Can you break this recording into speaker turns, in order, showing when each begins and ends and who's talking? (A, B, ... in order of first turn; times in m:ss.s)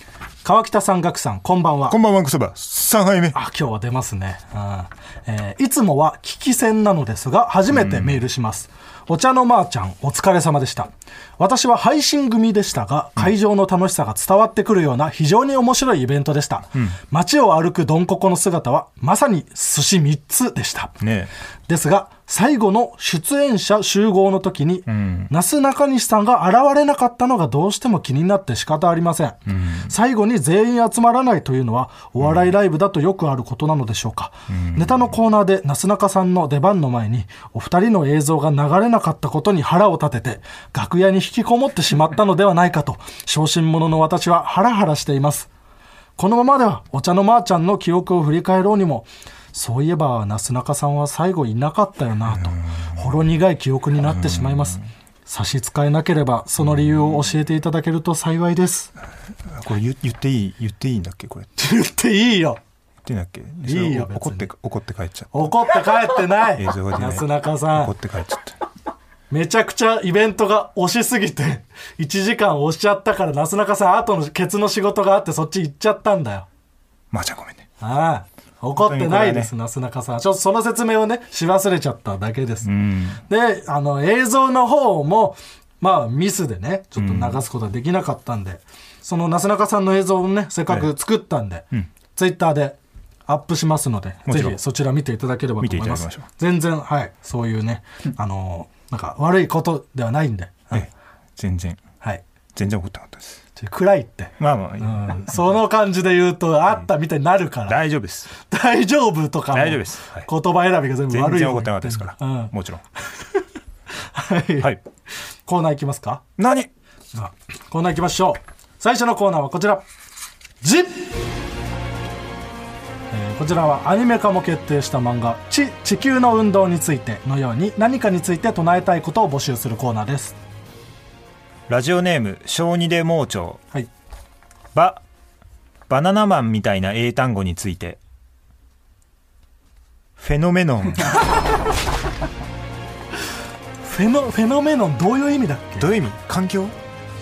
0:00.4-0:02.0 A
0:01.9-0:03.4 B
0:03.3-0:21.0 A
0:07.7-0:08.2 B
0:21.0-0:21.3 B
0:21.7-0:45.5 A
0:24.9-0:25.3 B
0:29.5-0:29.9 B
0:32.2-0:32.5 B
0:34.5-0:35.2 B
0:46.2-0:58.9 A
0:52.3-0:53.1 B
0:54.0-0:54.8 B
0:56.6-0:57.3 B
0:59.4-1:01.5 B
1:01.6-1:02.6 A
1:03.0-1:05.6 B
1:03.6-1:04.5 A
1:05.3-1:07.9 A
1:06.6-1:08.6 B
1:09.3-1:16.5 A
1:17.1-1:17.7 B
1:17.8-1:40.9 A
1:18.8-1:19.5 B
1:22.6-1:23.2 B
1:27.0-1:27.4 B
1:34.2-1:34.6 B
1:35.6-1:36.2 B
1:40.7-1:41.8 B
1:42.5-1:43.4 B
1:43.6-1:47.8 A
1:44.4-1:45.5 B
1:47.7-1:48.3 B
1:48.3-1:52.5 A
1:49.5-1:50.3 B
1:51.1-1:52.8 B
1:54.0-1:54.8 A
1:55.4-1:56.2 A
1:56.4-1:56.7 B
1:57.1-1:59.8 A
2:00.6-2:01.2 A
2:03.1-2:10.4 A
2:11.7-2:13.6 B
2:14.7-2:15.0 B
2:15.9-2:18.0 B
2:20.2-2:21.3 B
2:23.8-2:25.9 A
2:25.8-2:26.8 B